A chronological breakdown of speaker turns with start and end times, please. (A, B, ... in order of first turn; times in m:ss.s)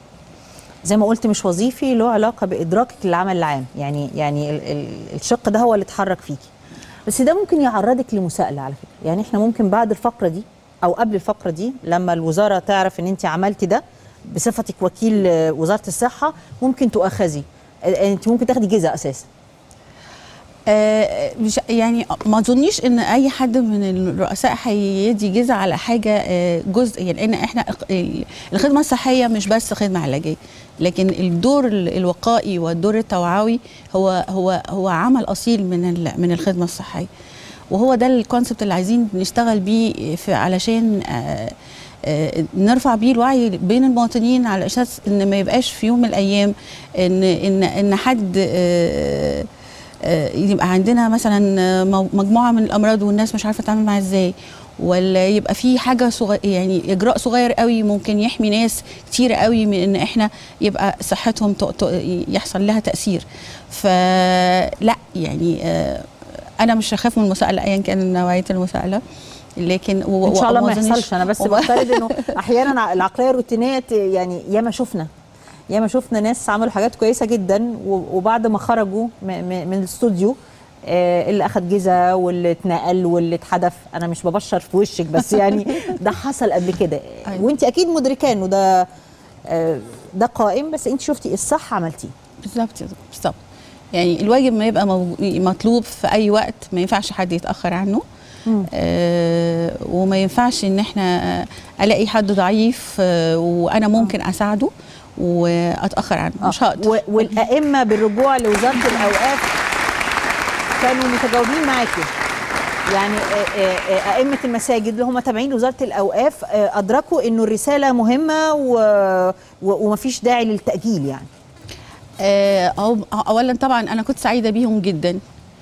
0:00.8-0:06.5 A
0:07.1-0:19.3 A
0:20.7-0:37.1 B
0:37.7-0:49.5 B
0:50.0-1:06.1 B
1:06.6-1:09.0 B
1:09.6-1:12.3 B
1:10.2-1:15.1 A
1:15.7-1:28.9 A
1:29.5-1:32.1 A
1:32.4-1:33.4 B
1:33.9-1:38.0 B
1:38.7-1:47.3 B
1:46.4-1:49.5 A
1:50.8-1:52.1 A
1:52.9-2:01.3 A
2:02.2-2:05.2 B